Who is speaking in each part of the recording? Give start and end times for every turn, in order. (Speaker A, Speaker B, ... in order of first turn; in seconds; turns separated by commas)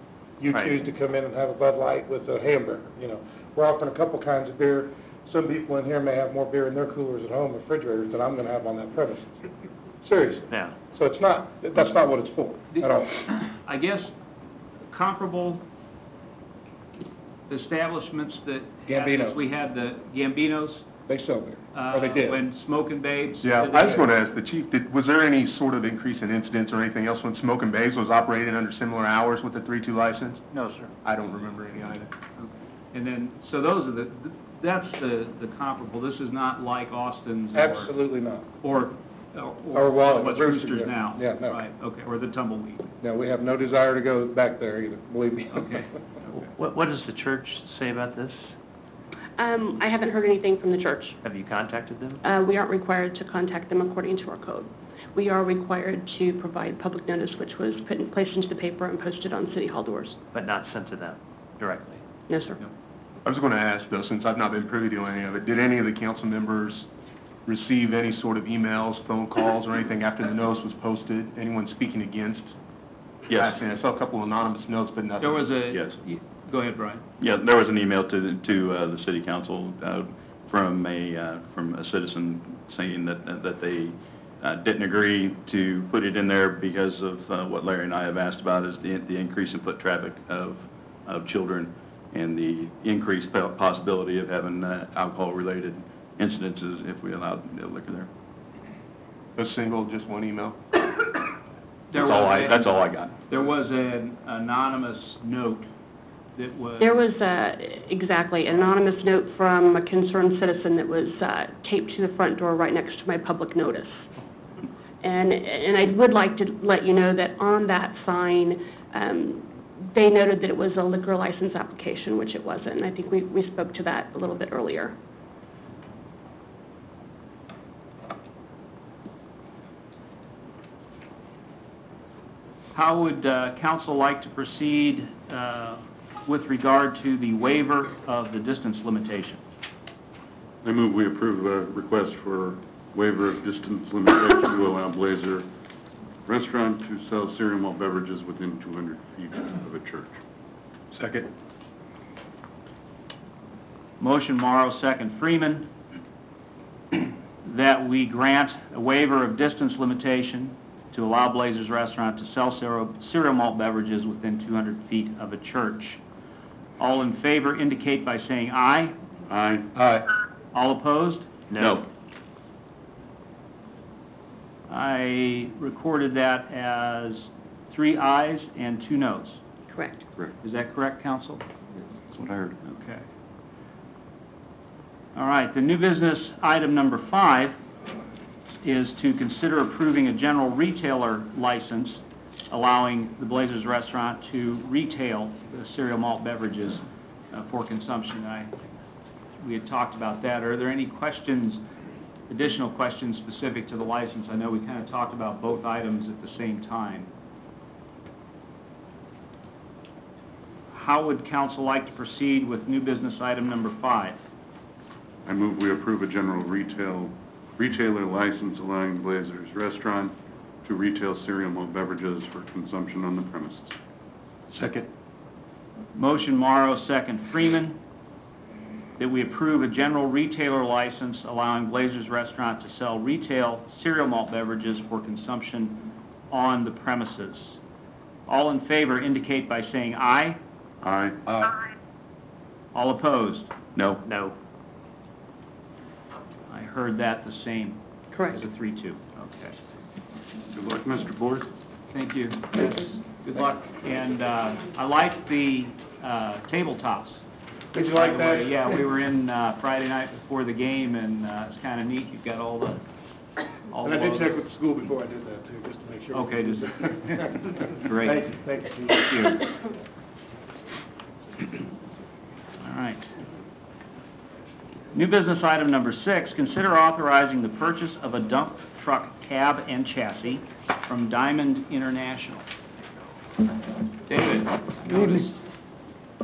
Speaker A: 0.4-9.4, Speaker B: 0.5-0.8, Speaker A: 10.0-13.3, Speaker B: 10.5-10.8, Speaker C: 12.8-14.1, Speaker C: 14.9-15.6, Speaker C: 17.5-20.9, Speaker A: 18.9-19.4, Speaker A: 21.1-22.4, Speaker C: 21.7-24.1, Speaker D: 23.4-30.4, Speaker D: 31.0-32.1, Speaker C: 32.4-38.0, Speaker A: 37.5-38.5, Speaker C: 38.6-42.9, Speaker A: 39.7-41.6, Speaker A: 43.0-45.8, Speaker C: 45.5-45.9, Speaker B: 46.3-48.5, Speaker E: 49.4-51.2, Speaker B: 51.2-52.2, Speaker E: 52.2-60.2, Speaker B: 60.3-62.0, Speaker E: 62.3-62.6, Speaker D: 63.2-66.9, Speaker D: 67.5-72.5, Speaker F: 73.3-73.6, Speaker D: 73.3-75.5, Speaker C: 75.2-77.0, Speaker F: 75.7-76.0, Speaker F: 77.2-98.1, Speaker D: 99.3-100.6, Speaker C: 101.9-105.7, Speaker F: 101.9-103.2, Speaker C: 106.3-107.0, Speaker E: 106.8-114.1, Speaker E: 115.0-125.0, Speaker C: 132.7-139.4, Speaker G: 140.6-145.5, Speaker G: 146.3-150.1, Speaker C: 154.0-155.7, Speaker C: 156.9-166.0, Speaker C: 166.8-168.9, Speaker G: 169.3-169.7, Speaker C: 170.5-171.3, Speaker B: 171.5-171.8, Speaker C: 174.7-179.4, Speaker E: 179.7-180.0, Speaker C: 180.4-181.4, Speaker F: 182.1-182.5, Speaker C: 182.7-183.0, Speaker C: 185.1-187.6, Speaker C: 188.6-198.6, Speaker C: 199.4-201.6, Speaker C: 202.3-207.1, Speaker C: 210.7-214.2, Speaker G: 215.2-223.8, Speaker C: 225.9-227.8, Speaker C: 229.0-237.6, Speaker C: 238.3-240.4, Speaker G: 240.8-241.2, Speaker C: 242.7-243.5, Speaker F: 243.7-244.0, Speaker B: 244.0-244.3, Speaker C: 246.5-249.6, Speaker E: 248.1-248.4, Speaker G: 250.5-251.5, Speaker C: 251.9-257.2, Speaker A: 257.7-258.8, Speaker C: 257.8-262.8, Speaker C: 263.7-264.4, Speaker A: 263.8-269.4, Speaker C: 266.1-268.4, Speaker C: 269.0-269.4, Speaker C: 272.6-273.1, Speaker C: 274.9-282.4, Speaker C: 284.1-285.4